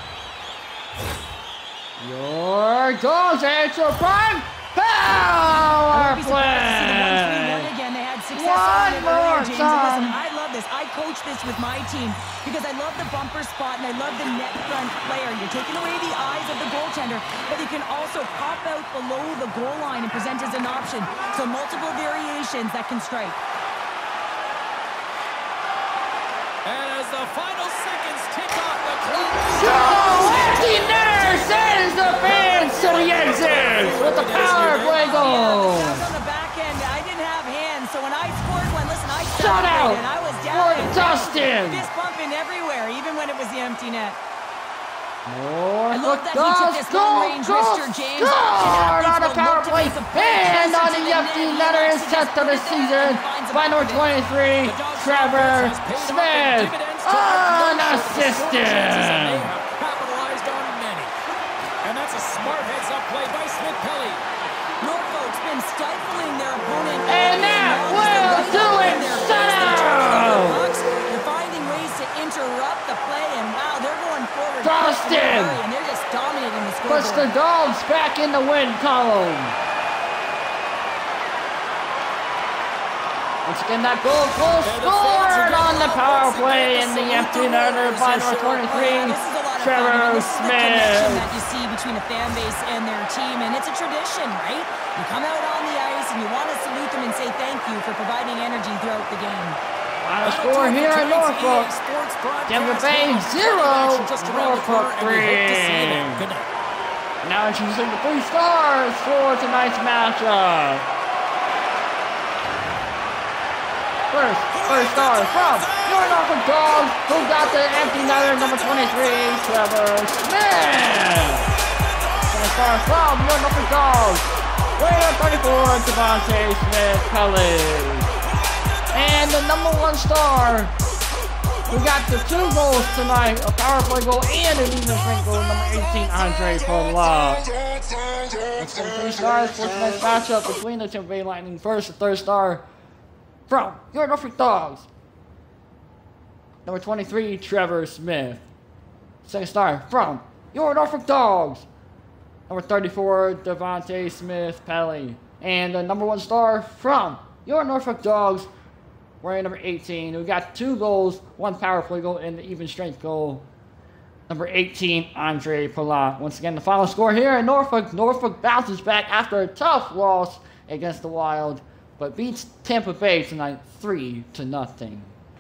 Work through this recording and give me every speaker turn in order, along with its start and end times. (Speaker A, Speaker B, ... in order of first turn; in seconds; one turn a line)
Speaker A: 2.0-7.7
Speaker B: 5.9-23.4
Speaker A: 8.3-10.2
Speaker C: 26.6-35.4
Speaker A: 29.5-36.0
Speaker B: 30.0-31.1
Speaker B: 34.8-44.2
Speaker A: 39.3-41.9
Speaker A: 45.3-59.5
Speaker B: 45.9-54.1
Speaker C: 54.6-61.1
Speaker C: 61.8-64.2
Speaker B: 64.8-77.3
Speaker A: 67.1-70.6
Speaker A: 74.6-75.6
Speaker A: 76.9-79.6
Speaker A: 83.5-91.3
Speaker C: 84.6-88.8
Speaker B: 88.6-99.6
Speaker A: 100.0-101.7
Speaker C: 100.2-106.5
Speaker A: 102.5-106.3
Speaker A: 107.2-110.9
Speaker A: 114.1-121.5
Speaker C: 114.5-116.1
Speaker A: 122.2-128.1
Speaker A: 128.9-130.8
Speaker A: 131.7-137.5
Speaker A: 138.4-142.6
Speaker A: 143.5-144.9
Speaker A: 146.7-148.4
Speaker A: 149.2-151.7
Speaker A: 152.5-158.5
Speaker A: 159.2-163.5
Speaker A: 164.3-175.1